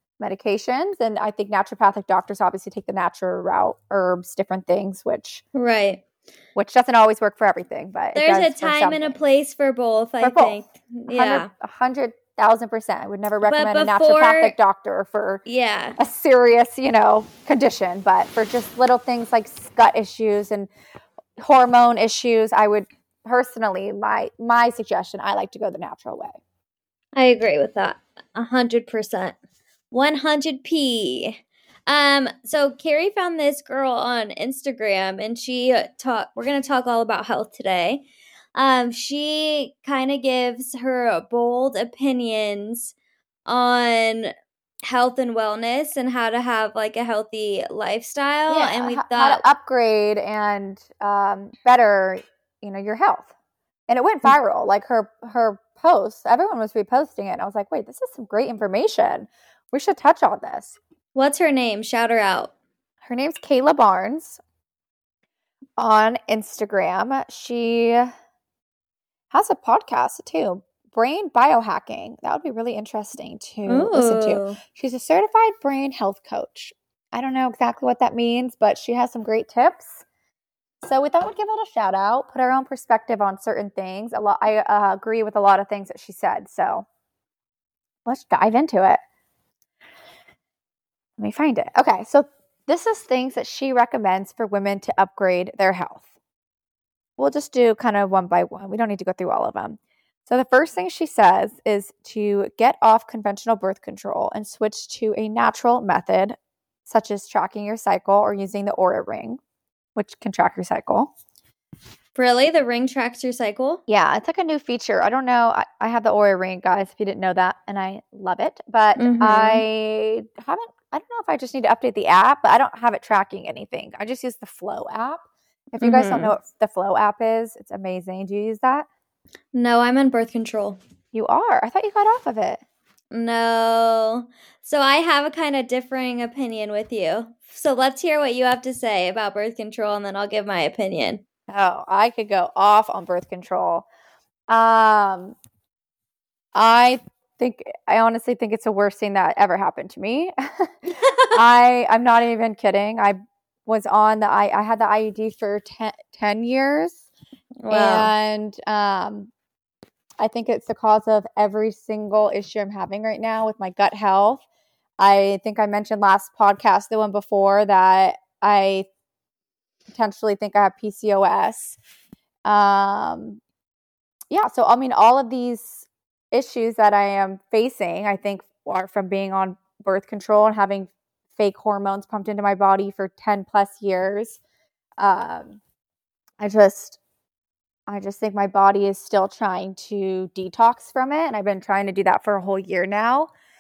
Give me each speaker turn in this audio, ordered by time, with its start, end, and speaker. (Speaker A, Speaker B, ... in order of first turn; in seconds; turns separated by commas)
Speaker A: 0.2-5.4, Speaker B: 5.5-6.0, Speaker A: 6.5-9.2, Speaker B: 8.2-11.5, Speaker A: 10.2-15.4, Speaker B: 13.4-14.6, Speaker B: 15.5-16.0, Speaker A: 16.0-20.7, Speaker A: 21.4-26.4, Speaker B: 27.1-29.4, Speaker B: 29.9-38.0, Speaker B: 38.5-42.9, Speaker B: 43.5-49.4, Speaker A: 48.5-53.3, Speaker A: 53.9-60.8, Speaker B: 61.1-62.5, Speaker A: 63.0-64.4, Speaker A: 65.8-68.1, Speaker A: 69.3-80.0, Speaker B: 73.7-74.6, Speaker A: 80.8-86.9, Speaker A: 88.1-89.0, Speaker A: 91.2-96.1, Speaker A: 97.2-109.4, Speaker A: 110.0-111.1, Speaker B: 112.2-113.8, Speaker A: 113.9-128.9, Speaker B: 119.0-119.6, Speaker B: 125.8-126.3, Speaker B: 129.5-130.8, Speaker A: 131.1-132.6, Speaker B: 133.1-141.2, Speaker A: 141.5-143.8, Speaker A: 144.5-145.4, Speaker A: 146.6-157.1, Speaker B: 151.0-151.4, Speaker B: 157.6-158.1, Speaker A: 157.7-159.3, Speaker A: 160.2-164.4, Speaker A: 165.0-168.9, Speaker A: 169.9-171.8, Speaker A: 172.4-173.4, Speaker A: 174.3-184.4, Speaker A: 185.0-185.6, Speaker A: 186.4-187.0, Speaker A: 187.9-193.3